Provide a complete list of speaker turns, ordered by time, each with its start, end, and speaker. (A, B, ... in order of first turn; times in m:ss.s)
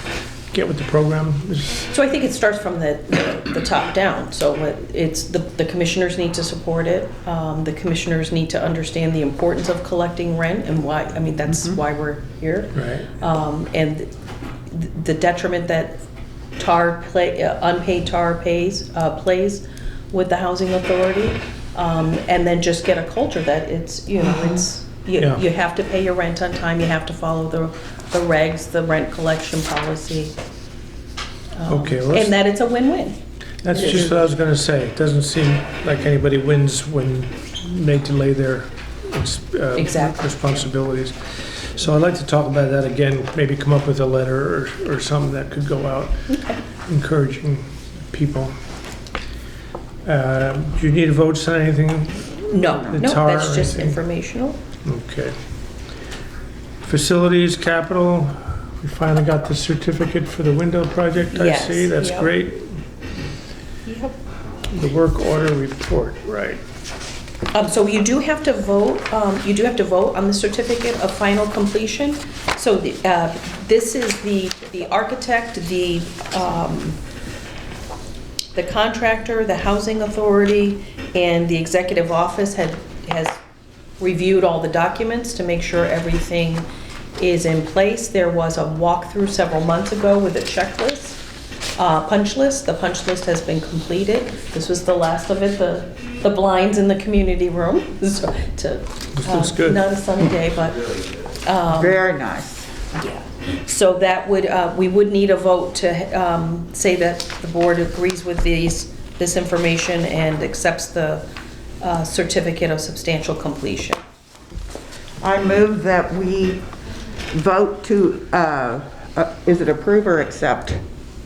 0:00.5-0:01.9 A
0:01.9-0:14.1 B
0:11.5-0:11.8 C
0:12.7-0:13.1 A
0:14.7-0:16.0 B
0:16.6-0:30.4 B
0:25.2-0:25.4 A
0:31.5-0:33.2 B
0:31.7-0:32.3 A
0:33.6-0:46.2 A
0:33.7-0:34.1 B
0:39.7-0:40.3 B
0:46.3-0:46.6 B
0:46.8-0:48.5 A
0:50.0-0:54.0 A
0:52.5-0:54.6 B
0:54.8-0:55.3 A
0:56.8-1:02.8 A
1:01.3-1:02.3 B
1:03.8-1:04.2 B
1:04.7-1:06.6 A
1:07.5-1:17.0 B
1:18.5-1:23.4 B
1:24.0-1:31.2 B
1:31.8-1:42.0 B
1:39.2-1:39.8 A
1:41.7-1:42.7 C
1:42.9-1:51.2 B
1:51.8-1:54.0 B
1:55.2-1:56.6 C
1:57.3-2:00.8 C